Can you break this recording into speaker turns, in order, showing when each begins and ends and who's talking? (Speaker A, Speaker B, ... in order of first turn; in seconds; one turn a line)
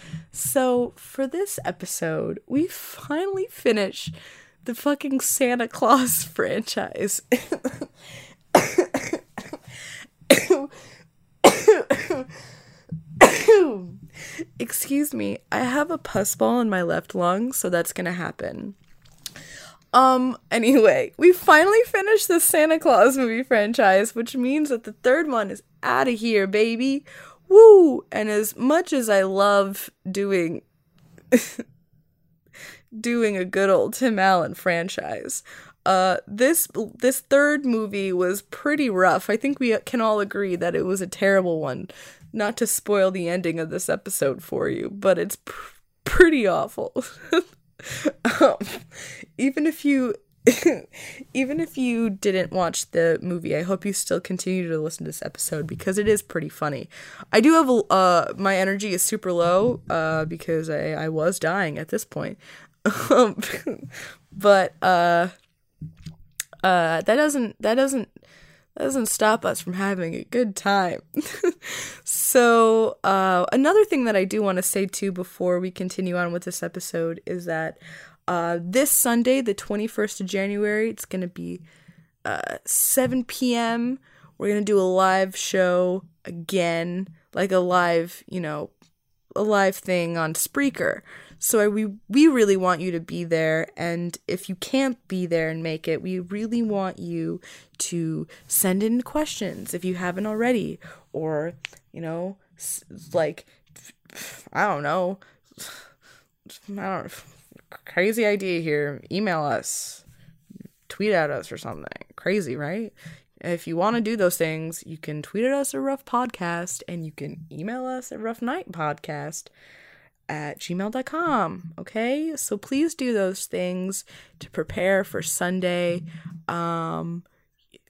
Speaker A: 0.3-4.1
Speaker A: 4.6-7.9
Speaker A: 8.5-9.2
Speaker A: 10.3-10.7
Speaker A: 11.4-12.3
Speaker A: 13.2-14.0
Speaker A: 14.6-18.8
Speaker A: 19.9-30.6
Speaker A: 31.3-31.6
Speaker A: 33.0-65.3
Speaker A: 66.6-68.1
Speaker A: 68.8-81.6
Speaker A: 82.2-88.7
Speaker A: 89.3-103.5
Speaker A: 104.1-105.8
Speaker A: 106.5-110.0
Speaker A: 110.9-119.5
Speaker A: 120.3-127.2